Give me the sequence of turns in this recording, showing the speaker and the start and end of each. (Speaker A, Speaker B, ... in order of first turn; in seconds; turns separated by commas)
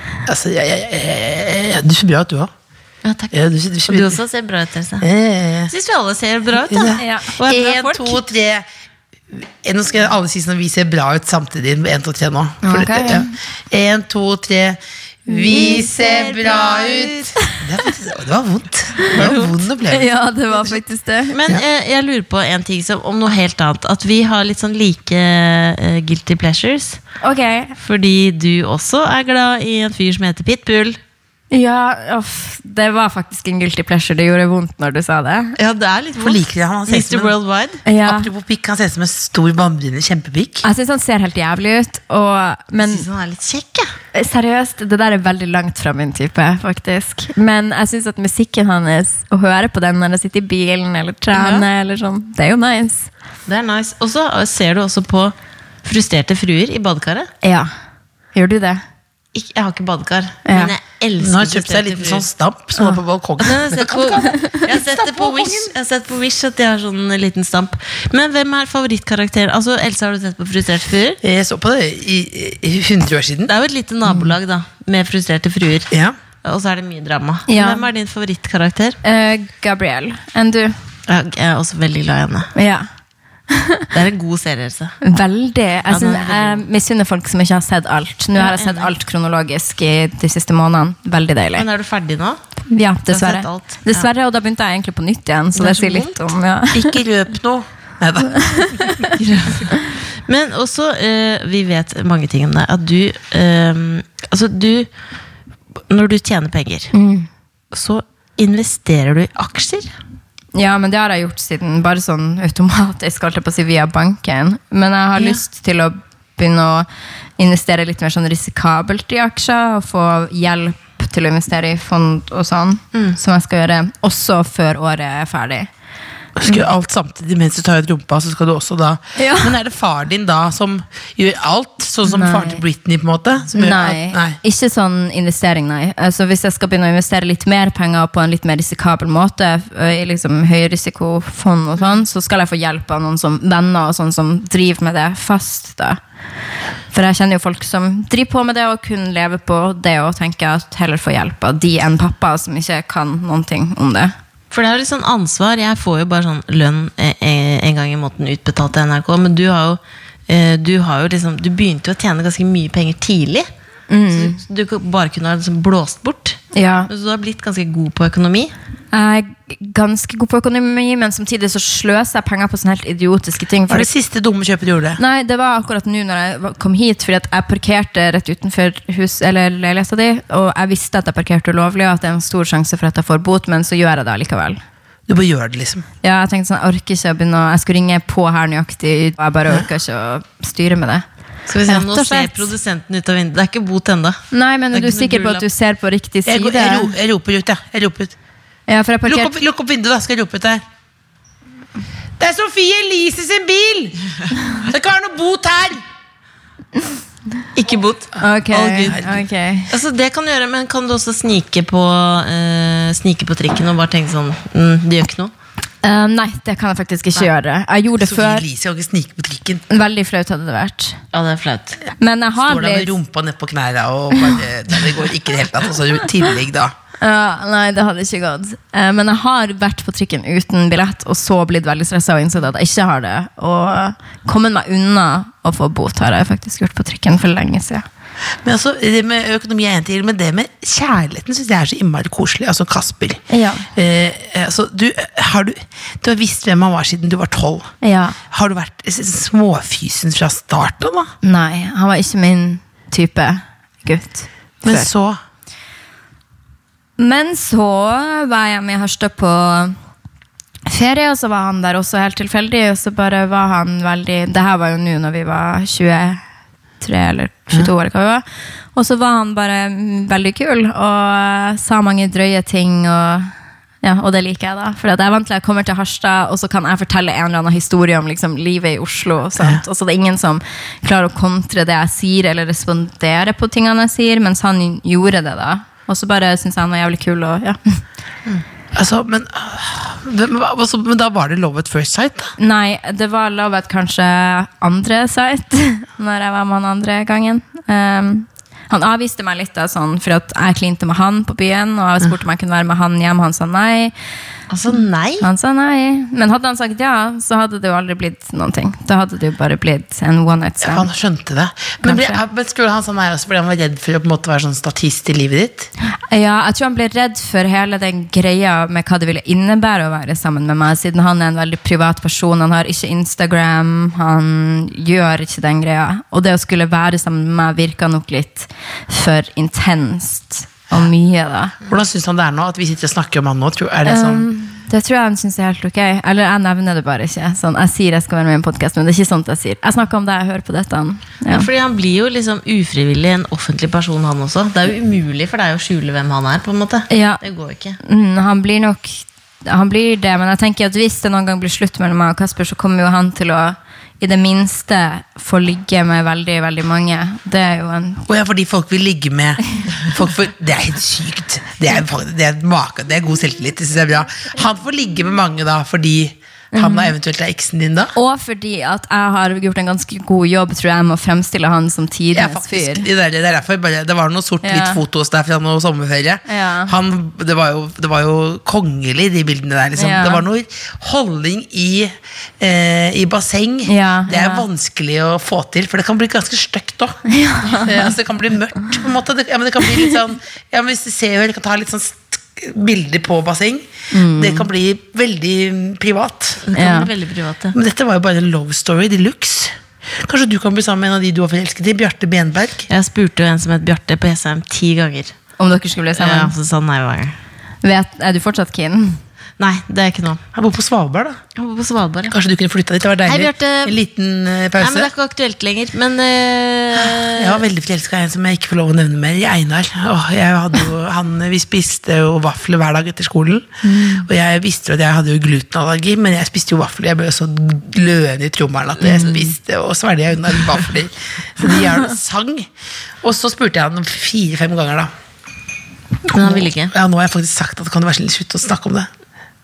Speaker A: 0.3-2.5, Speaker B: 3.0-3.3, Speaker A: 3.3-4.2, Speaker B: 3.9-5.1, Speaker A: 5.0-5.7, Speaker B: 5.7-8.2, Speaker A: 6.7-8.6, Speaker C: 6.9-7.4, Speaker A: 9.3-20.1, Speaker C: 12.6-13.3, Speaker C: 15.3-15.8, Speaker B: 15.5-17.3, Speaker C: 19.0-21.4, Speaker B: 19.1-19.5, Speaker B: 21.3-27.0, Speaker C: 27.2-27.7, Speaker B: 27.8-31.0, Speaker C: 31.5-35.6, Speaker B: 35.6-37.8, Speaker A: 36.2-37.3, Speaker C: 37.8-38.3, Speaker A: 37.9-40.6, Speaker C: 40.6-43.1, Speaker B: 42.8-43.9, Speaker C: 44.1-53.1, Speaker B: 51.3-51.6, Speaker B: 53.5-57.3, Speaker C: 57.4-57.7, Speaker C: 58.3-58.8, Speaker B: 59.3-62.2, Speaker C: 60.5-60.7, Speaker A: 61.2-65.7, Speaker B: 63.4-71.2, Speaker A: 71.2-73.5, Speaker B: 73.5-75.9, Speaker A: 75.9-76.2, Speaker B: 76.4-79.0, Speaker C: 77.5-77.8, Speaker C: 79.0-80.8, Speaker B: 81.1-82.5, Speaker C: 82.5-82.9, Speaker C: 83.5-83.9, Speaker B: 83.9-85.0, Speaker C: 85.0-91.7, Speaker B: 85.9-86.6, Speaker B: 88.3-88.9, Speaker B: 91.5-92.4, Speaker C: 92.7-96.9, Speaker B: 93.1-94.0, Speaker B: 95.5-96.2, Speaker A: 96.7-99.0, Speaker C: 98.2-99.1, Speaker B: 99.2-104.9, Speaker B: 105.9-106.9, Speaker C: 106.9-107.3, Speaker B: 107.7-109.9, Speaker C: 110.5-125.7, Speaker A: 126.4-134.4, Speaker C: 129.2-129.6, Speaker C: 132.1-132.6, Speaker C: 133.5-146.0, Speaker C: 146.9-154.1, Speaker B: 154.5-163.5, Speaker C: 163.9-164.4, Speaker B: 164.1-168.5, Speaker C: 166.5-166.9, Speaker C: 168.9-173.9, Speaker A: 173.7-175.0, Speaker C: 175.0-184.6, Speaker A: 185.1-185.8, Speaker C: 186.0-191.1, Speaker B: 191.5-195.4, Speaker C: 191.7-192.5, Speaker C: 194.3-196.9, Speaker A: 196.3-198.1, Speaker C: 198.7-199.4, Speaker A: 199.1-200.6, Speaker A: 202.2-205.8, Speaker B: 207.5-209.1, Speaker C: 208.2-209.7, Speaker A: 208.9-209.2, Speaker B: 209.7-215.3, Speaker C: 215.8-218.4, Speaker A: 218.0-219.6, Speaker C: 219.7-221.0, Speaker B: 221.1-221.8, Speaker C: 222.0-222.9, Speaker A: 222.4-226.7, Speaker C: 227.0-237.8, Speaker A: 238.4-247.7, Speaker C: 243.3-243.7, Speaker C: 247.8-248.2, Speaker A: 248.3-251.1, Speaker C: 251.2-254.9, Speaker A: 254.6-255.2, Speaker C: 257.0-259.8, Speaker C: 260.6-266.2, Speaker C: 266.8-287.8, Speaker A: 288.7-292.3, Speaker C: 292.4-303.9, Speaker B: 304.5-305.3, Speaker C: 305.2-310.9, Speaker A: 310.6-315.7, Speaker C: 311.8-312.2, Speaker C: 316.1-331.5, Speaker A: 331.7-334.3, Speaker C: 333.8-341.5, Speaker B: 341.3-347.8, Speaker C: 346.9-347.2, Speaker C: 347.8-358.1, Speaker A: 358.1-367.9, Speaker C: 366.5-366.9, Speaker C: 367.9-372.9, Speaker A: 372.1-396.4, Speaker C: 374.4-374.8, Speaker C: 376.3-376.7, Speaker C: 379.8-380.2, Speaker C: 383.6-384.4, Speaker C: 387.1-387.9, Speaker C: 393.9-394.5, Speaker B: 396.5-397.6, Speaker C: 396.5-396.9, Speaker A: 397.5-402.7, Speaker B: 402.7-405.1, Speaker C: 405.4-406.3, Speaker B: 405.9-407.2, Speaker C: 407.6-409.0, Speaker B: 409.4-410.2, Speaker A: 410.3-411.2, Speaker B: 411.4-412.1, Speaker A: 412.1-414.9, Speaker B: 413.1-413.8, Speaker B: 414.6-417.4, Speaker A: 416.7-432.5, Speaker C: 423.6-424.1, Speaker C: 428.8-429.3, Speaker A: 433.0-434.9, Speaker B: 436.1-436.7, Speaker A: 436.1-438.9